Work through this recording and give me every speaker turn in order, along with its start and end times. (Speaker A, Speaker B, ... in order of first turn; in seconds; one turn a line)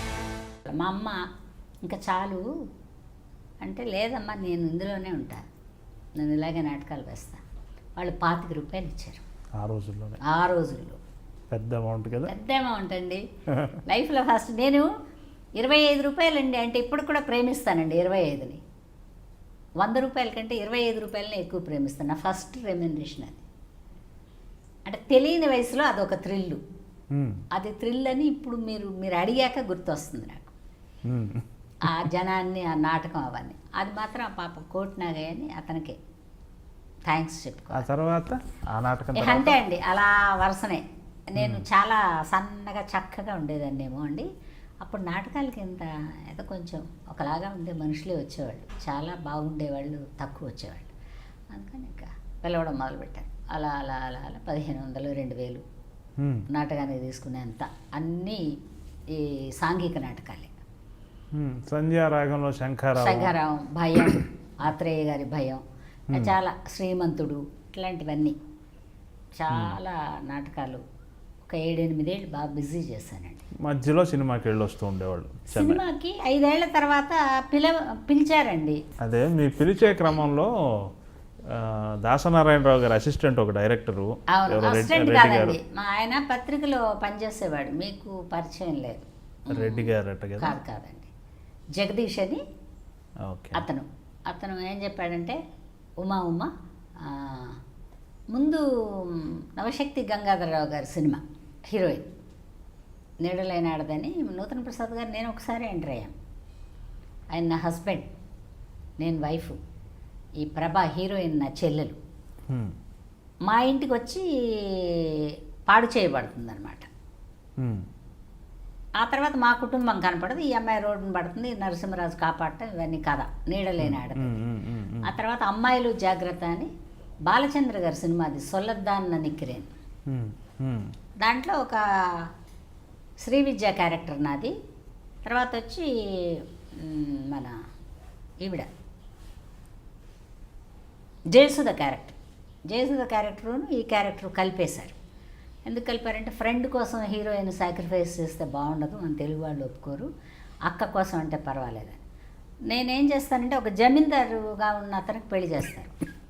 Speaker A: 0.8-1.2
Speaker A: 1.8-2.4
Speaker A: 3.6-5.4
Speaker A: 6.2-7.4
Speaker A: 8.0-9.2
Speaker B: 9.6-10.2
Speaker A: 10.2-11.0
Speaker B: 11.5-12.3
Speaker A: 12.2-13.2
Speaker A: 13.9-14.9
Speaker A: 15.6-18.6
Speaker A: 19.8-23.4
Speaker A: 24.9-26.6
Speaker B: 27.1-27.4
Speaker A: 27.5-30.5
Speaker B: 31.1-31.4
Speaker A: 31.8-36.0
Speaker A: 37.1-37.9
Speaker B: 37.7-39.6
Speaker A: 39.1-44.3
Speaker B: 41.4-41.6
Speaker A: 44.8-50.9
Speaker A: 51.5-55.6
Speaker B: 56.2-56.4
Speaker A: 56.5-58.4
Speaker A: 59.1-60.5
Speaker B: 61.3-63.4
Speaker A: 62.9-68.4
Speaker A: 69.4-70.8
Speaker B: 69.5-69.8
Speaker A: 71.4-73.5
Speaker B: 73.6-75.8
Speaker A: 75.5-78.8
Speaker B: 79.0-80.9
Speaker B: 81.5-85.6
Speaker A: 84.3-91.1
Speaker B: 89.5-90.6
Speaker A: 91.8-92.4
Speaker B: 93.2-93.6
Speaker A: 93.5-95.4
Speaker A: 96.0-96.5
Speaker A: 97.0-97.6
Speaker A: 98.3-102.1
Speaker A: 103.2-106.1
Speaker A: 107.3-108.1
Speaker A: 109.0-109.6
Speaker A: 110.4-112.0
Speaker A: 113.5-116.9
Speaker B: 117.6-117.8
Speaker A: 119.0-124.4
Speaker B: 123.8-125.1
Speaker A: 125.0-126.7
Speaker A: 127.3-129.7
Speaker B: 130.1-130.9
Speaker A: 131.2-132.3
Speaker A: 133.2-134.5
Speaker A: 135.2-137.5
Speaker A: 138.4-138.7
Speaker A: 141.3-142.2
Speaker A: 142.7-144.9
Speaker A: 145.7-150.1
Speaker A: 150.7-152.0
Speaker A: 152.7-155.9